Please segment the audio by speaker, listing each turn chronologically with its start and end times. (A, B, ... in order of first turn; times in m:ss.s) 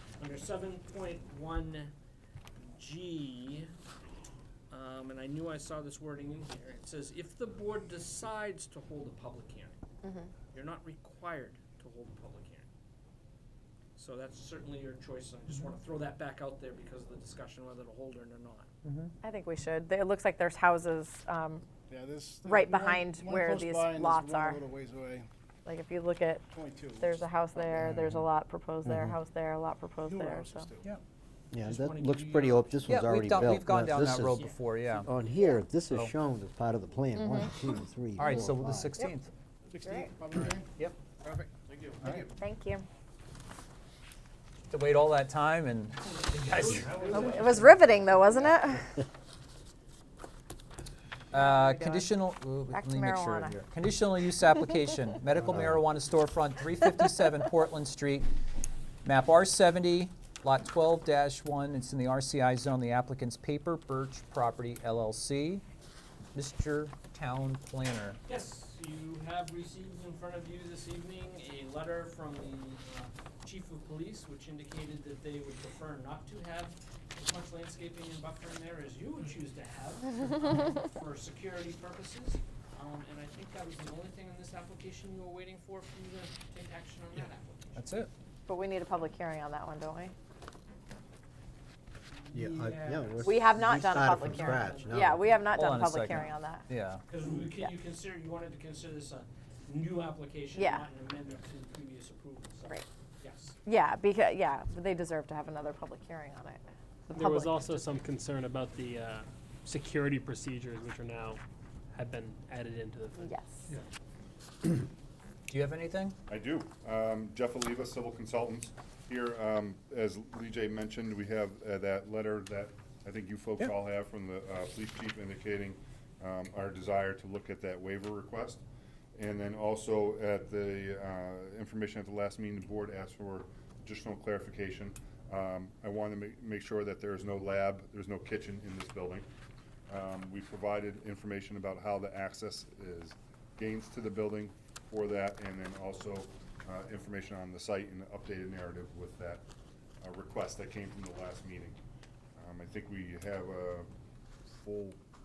0:00.2-0:01.9 A
0:02.8-0:03.7 A
0:04.7-0:09.8 A
0:10.0-0:10.3 B
0:10.5-0:12.6 A
0:14.0-0:18.7 A
0:18.8-0:19.1 C
0:19.2-0:21.7 B
0:21.9-0:25.3 D
0:22.4-0:24.6 B
0:25.7-0:26.4 B
0:26.5-0:27.7 D
0:27.0-0:30.7 B
0:28.8-0:29.2 E
0:30.0-0:30.9 D
0:31.5-0:34.5 E
0:31.6-0:32.8 A
0:32.8-0:35.1 C
0:35.0-0:38.9 E
0:37.2-0:37.5 B
0:38.2-0:39.3 C
0:39.7-0:40.7 D
0:39.8-0:40.1 B
0:41.2-0:42.2 D
0:42.4-0:42.8 B
0:44.7-0:47.1 C
0:46.5-0:47.5 A
0:47.1-0:48.9 B
0:51.3-0:58.3 C
0:51.3-0:52.1 B
0:52.7-0:53.6 B
0:55.4-0:55.8 E
0:59.0-1:05.6 C
1:06.3-1:08.2 C
1:08.2-1:27.8 A
1:27.8-1:28.1 C
1:28.5-1:30.1 B
1:32.3-1:35.2 E
1:32.4-1:33.2 A
1:33.2-1:36.7 B
1:34.2-1:35.0 A
1:35.5-1:37.0 C
1:37.1-1:43.6 A
1:40.6-1:40.9 B
1:43.6-1:47.9 B
1:47.1-1:51.4 F
1:51.9-1:53.3 F
1:53.2-1:53.6 B
1:55.5-1:56.2 C
1:56.3-2:08.6 G
2:09.2-2:19.3 G
2:19.9-2:29.4 G
2:30.0-2:31.8 G
2:32.4-2:33.9 G
2:34.5-2:35.0 G